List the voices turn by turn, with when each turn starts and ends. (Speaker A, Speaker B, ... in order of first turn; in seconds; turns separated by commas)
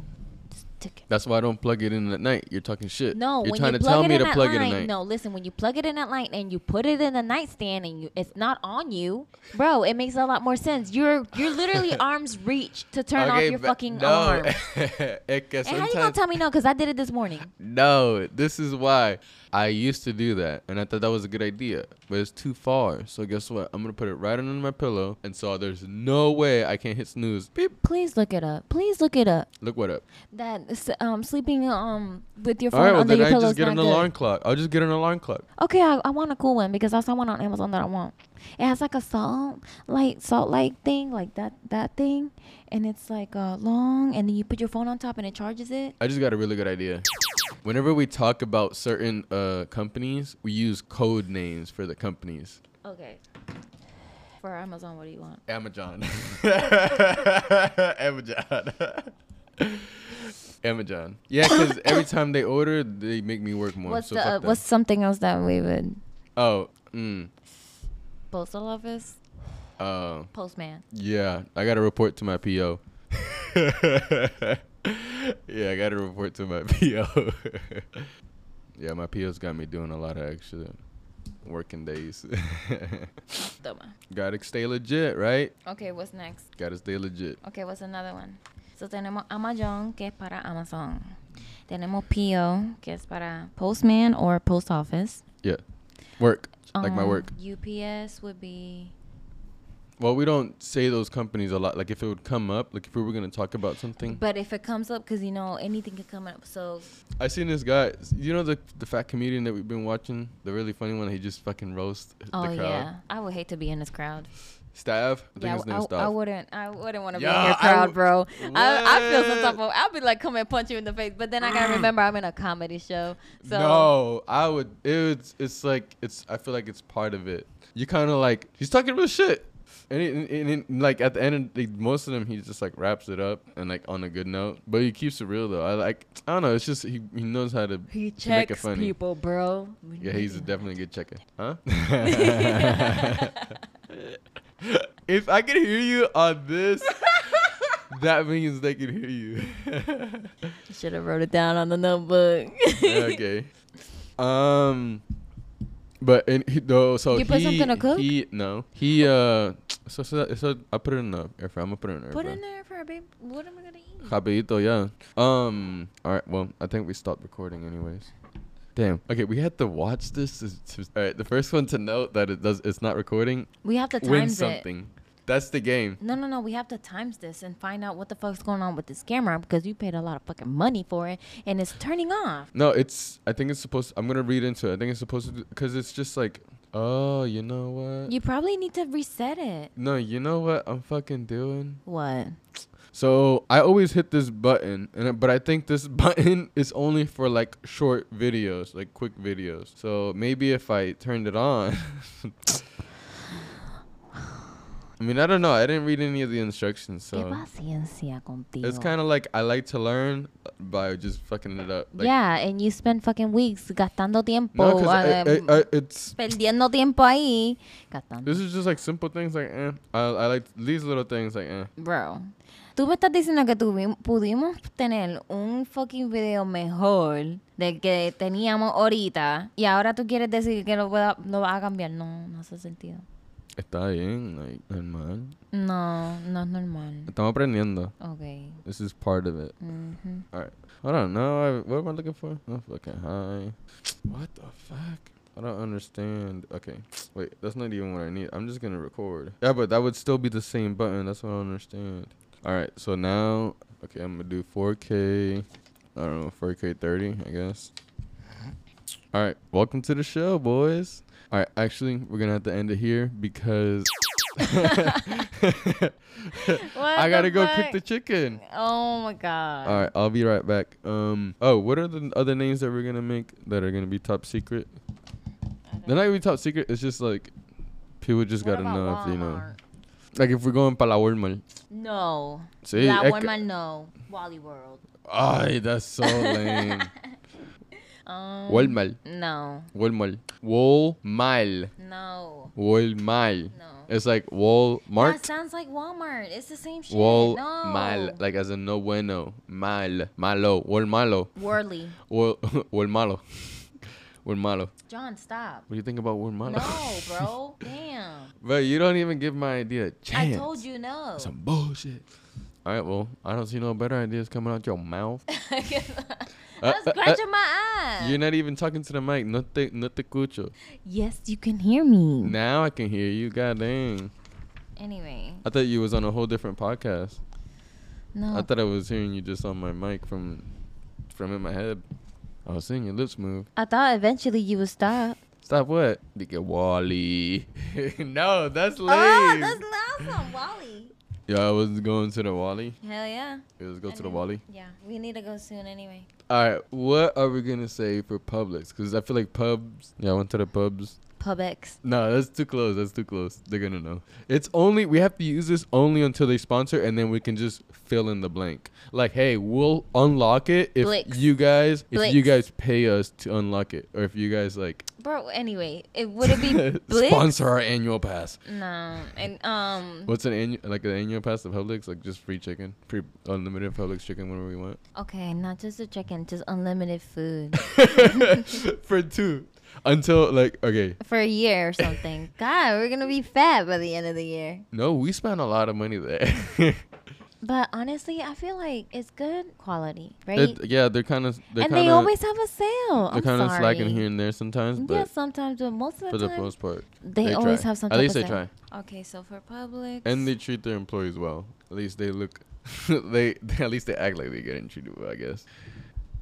Speaker A: 0.5-1.1, Speaker B: 1.1-4.9, Speaker A: 3.1-14.5, Speaker B: 13.2-16.2, Speaker A: 15.6-17.5, Speaker B: 17.6-27.7, Speaker A: 27.6-29.5, Speaker B: 29.6-30.0, Speaker A: 30.3-34.1, Speaker B: 32.7-35.5, Speaker A: 35.6-45.9, Speaker B: 46.0-47.0, Speaker B: 47.6-52.6, Speaker A: 52.8-53.2, Speaker A: 54.4-55.4, Speaker B: 55.5-64.6, Speaker A: 61.5-62.0, Speaker A: 63.8-66.0, Speaker B: 66.4-67.3, Speaker A: 68.3-69.2, Speaker B: 69.8-70.3, Speaker A: 70.3-70.8, Speaker B: 70.9-78.1, Speaker B: 78.8-80.8, Speaker B: 81.4-83.1, Speaker A: 83.5-84.0, Speaker B: 84.1-85.5, Speaker A: 85.6-86.5, Speaker B: 86.6-87.4, Speaker A: 87.4-95.2, Speaker B: 96.2-97.3, Speaker A: 96.7-98.9, Speaker B: 100.0-104.2, Speaker A: 104.0-106.9, Speaker B: 107.2-112.9, Speaker A: 112.3-114.3, Speaker B: 114.7-116.1, Speaker A: 115.4-123.9, Speaker B: 117.1-119.6, Speaker B: 123.4-138.9, Speaker A: 137.9-140.6, Speaker B: 140.0-143.4, Speaker A: 142.0-143.6, Speaker B: 143.9-150.5, Speaker A: 150.7-153.2, Speaker B: 152.8-153.5, Speaker B: 154.2-155.0, Speaker B: 156.0-162.4, Speaker A: 157.1-158.1, Speaker A: 162.1-164.2, Speaker B: 164.0-168.1, Speaker B: 168.8-173.5, Speaker A: 173.6-174.6, Speaker B: 174.0-176.0, Speaker A: 176.0-182.5, Speaker B: 182.5-188.1, Speaker A: 188.1-189.7, Speaker B: 189.8-191.8, Speaker A: 191.9-192.4, Speaker B: 192.9-202.6, Speaker B: 205.0-207.4, Speaker A: 207.1-208.9, Speaker B: 208.6-212.1, Speaker A: 212.0-218.4, Speaker B: 214.5-216.1, Speaker B: 218.2-221.7, Speaker A: 221.8-233.1, Speaker B: 233.6-235.4, Speaker A: 235.5-237.1, Speaker B: 237.1-237.9, Speaker A: 238.0-238.6, Speaker B: 238.6-239.5, Speaker A: 239.6-240.2, Speaker B: 240.3-257.7, Speaker B: 259.1-268.4, Speaker A: 264.5-265.0, Speaker A: 266.4-267.8, Speaker A: 268.4-269.9, Speaker B: 269.6-274.7, Speaker A: 275.7-276.0, Speaker B: 275.9-277.3, Speaker B: 278.0-279.4, Speaker A: 278.4-279.6, Speaker B: 280.1-281.4, Speaker A: 281.7-284.8, Speaker B: 282.6-283.4, Speaker B: 285.1-286.9, Speaker A: 286.0-287.1, Speaker A: 288.0-289.7, Speaker B: 288.5-289.0, Speaker B: 289.7-291.7, Speaker A: 291.8-292.5, Speaker B: 292.5-295.3, Speaker A: 293.5-293.9, Speaker A: 295.0-298.2, Speaker B: 296.9-301.3, Speaker A: 301.4-302.0, Speaker B: 302.1-303.6, Speaker B: 304.2-304.7, Speaker A: 304.9-305.7, Speaker B: 305.7-307.3, Speaker A: 306.4-308.3, Speaker B: 308.4-310.6, Speaker A: 310.1-311.3, Speaker B: 311.2-312.0, Speaker B: 312.6-315.2, Speaker A: 315.3-318.2, Speaker B: 316.6-317.2, Speaker B: 318.0-320.5, Speaker A: 320.8-322.4, Speaker B: 322.2-324.1, Speaker A: 324.8-325.5, Speaker B: 325.4-327.2, Speaker A: 328.1-328.5, Speaker B: 328.3-330.5, Speaker B: 331.1-331.8, Speaker B: 332.5-333.5, Speaker A: 333.6-335.2, Speaker B: 335.4-340.1, Speaker A: 338.9-340.9, Speaker B: 341.3-342.8, Speaker A: 342.8-346.1, Speaker B: 343.6-344.4, Speaker B: 346.3-351.0, Speaker A: 351.2-351.8, Speaker B: 351.8-364.9, Speaker A: 360.8-361.3, Speaker A: 361.9-362.3, Speaker A: 365.0-367.3, Speaker B: 366.2-368.4, Speaker A: 368.4-370.1, Speaker B: 370.1-374.8, Speaker A: 374.9-378.6, Speaker B: 377.6-381.0, Speaker A: 381.0-384.6, Speaker B: 384.7-386.8, Speaker A: 387.4-390.6, Speaker B: 390.4-392.1, Speaker A: 391.6-394.1, Speaker B: 393.0-395.1, Speaker A: 394.8-400.3, Speaker B: 396.1-398.5, Speaker B: 400.0-405.5